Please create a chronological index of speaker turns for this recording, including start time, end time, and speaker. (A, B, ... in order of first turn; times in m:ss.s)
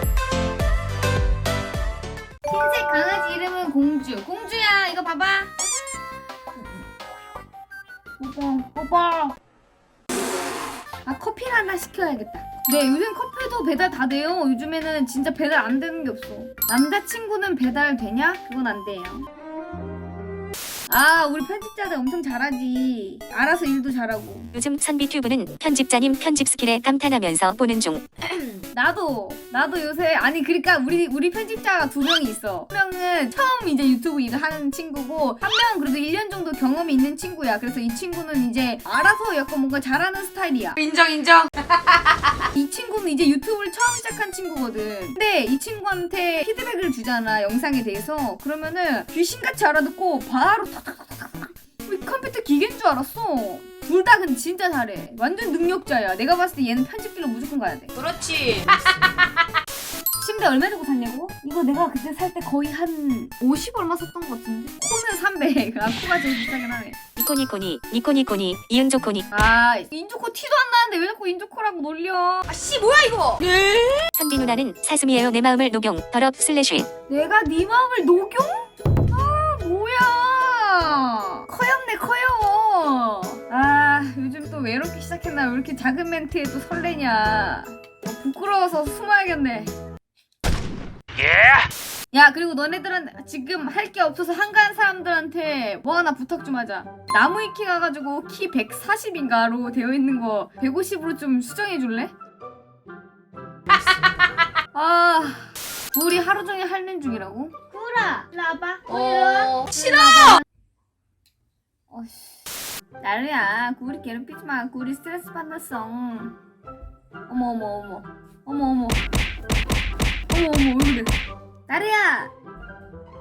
0:02.4-0:05.5 A
0:08.2-0:09.4 A
0:11.0-0:19.3 A
0:20.9-0:24.5 A
0:24.5-0:28.0 B
0:28.5-0:41.0 A
0:40.8-0:42.1 C
0:42.5-0:58.0 A
0:58.0-0:59.1 C
1:00.2-1:07.0 A
1:07.2-1:09.3 B
1:09.3-1:13.5 A
1:13.6-1:16.9 B
1:17.1-1:29.7 A
1:32.1-1:42.1 A
1:44.7-1:50.4 A
1:48.9-1:50.2 C
1:51.9-1:52.4 A
1:53.0-1:56.4 A
1:57.3-1:59.0 A
2:00.3-2:01.1 A
2:01.7-2:02.3 A